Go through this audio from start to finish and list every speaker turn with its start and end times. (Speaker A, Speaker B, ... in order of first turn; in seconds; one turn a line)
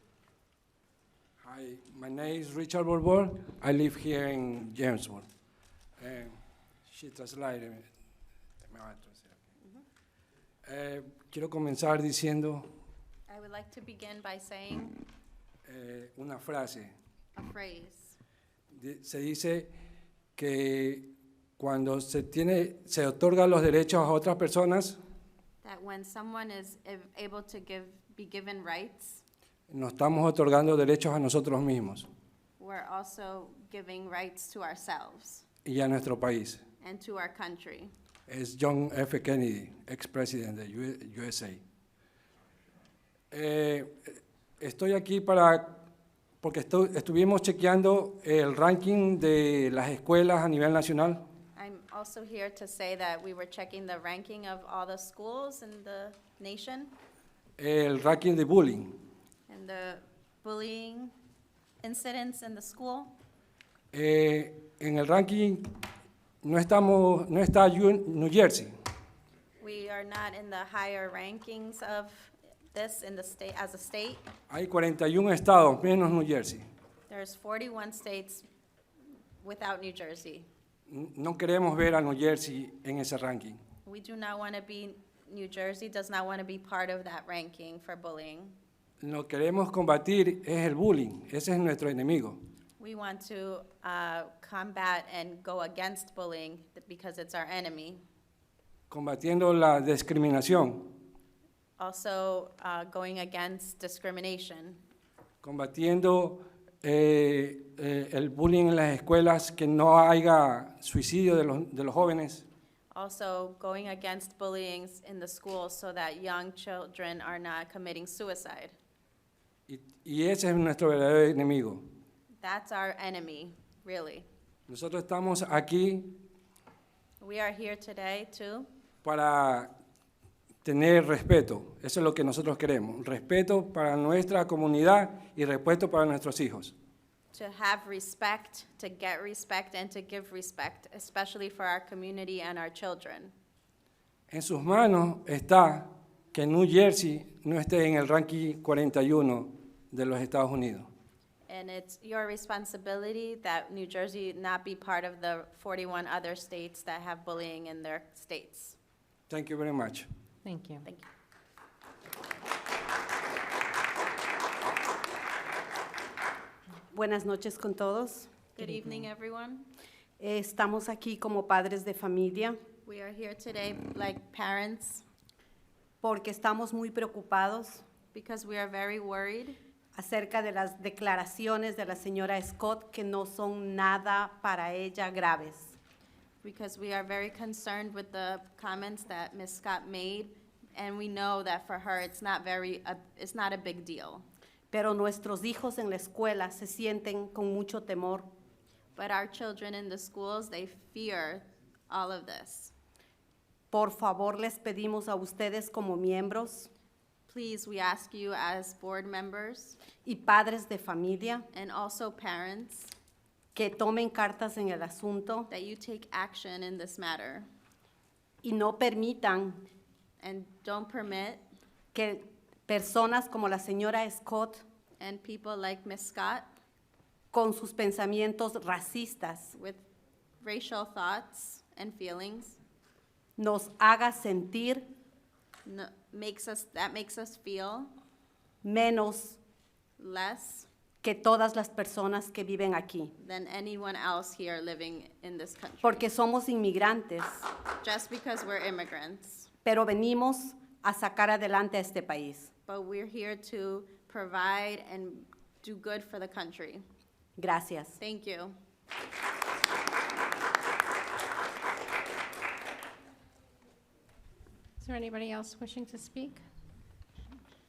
Speaker A: 1.4-5.2
Speaker A: 6.0-7.9
Speaker A: 8.7-9.4
Speaker A: 10.7-12.6
Speaker B: 13.3-15.0
Speaker A: 15.7-16.9
Speaker B: 17.3-18.2
Speaker A: 18.7-19.7
Speaker A: 20.4-25.0
Speaker B: 25.6-29.2
Speaker A: 29.7-32.1
Speaker B: 32.6-35.4
Speaker A: 35.6-36.6
Speaker B: 36.8-37.9
Speaker A: 38.3-41.6
Speaker A: 43.3-45.8
Speaker A: 46.4-51.2
Speaker B: 51.5-56.9
Speaker A: 57.6-58.9
Speaker B: 59.5-61.1
Speaker B: 61.8-63.1
Speaker A: 63.9-65.6
Speaker A: 66.4-68.7
Speaker B: 69.6-74.2
Speaker A: 74.5-76.6
Speaker B: 77.1-78.4
Speaker B: 79.4-80.5
Speaker A: 80.9-83.6
Speaker B: 83.8-88.5
Speaker A: 89.0-92.4
Speaker B: 92.8-98.0
Speaker A: 98.9-100.9
Speaker B: 101.8-104.8
Speaker A: 105.4-112.5
Speaker B: 112.9-118.7
Speaker A: 119.7-121.8
Speaker B: 122.4-124.2
Speaker A: 124.7-126.2
Speaker B: 127.2-128.7
Speaker A: 129.0-129.7
Speaker A: 130.6-136.7
Speaker B: 137.3-143.3
Speaker A: 144.3-150.9
Speaker B: 151.5-158.8
Speaker A: 159.3-160.1
Speaker C: 160.4-160.8
Speaker D: 166.9-168.3
Speaker B: 168.6-169.7
Speaker D: 170.2-172.6
Speaker B: 172.8-175.0
Speaker D: 176.0-177.8
Speaker B: 178.1-179.6
Speaker D: 179.9-185.8
Speaker B: 186.4-194.2
Speaker D: 194.7-198.2
Speaker B: 198.9-202.7
Speaker D: 203.7-206.7
Speaker B: 207.3-209.8
Speaker D: 210.0-211.4
Speaker B: 211.5-212.9
Speaker D: 213.5-215.5
Speaker B: 215.5-217.5
Speaker D: 218.4-219.6
Speaker B: 220.2-221.4
Speaker D: 221.9-224.6
Speaker B: 225.0-226.5
Speaker D: 227.3-229.5
Speaker B: 229.5-229.8
Speaker B: 230.4-232.6
Speaker D: 233.4-234.8
Speaker B: 235.6-237.9
Speaker D: 238.6-239.4
Speaker B: 240.0-240.7
Speaker D: 241.0-243.1
Speaker B: 243.2-246.0
Speaker D: 245.8-247.4
Speaker B: 247.8-249.5
Speaker D: 249.6-252.5
Speaker B: 252.7-256.8
Speaker D: 257.4-257.9
Speaker B: 258.0-258.6
Speaker C: 264.8-266.4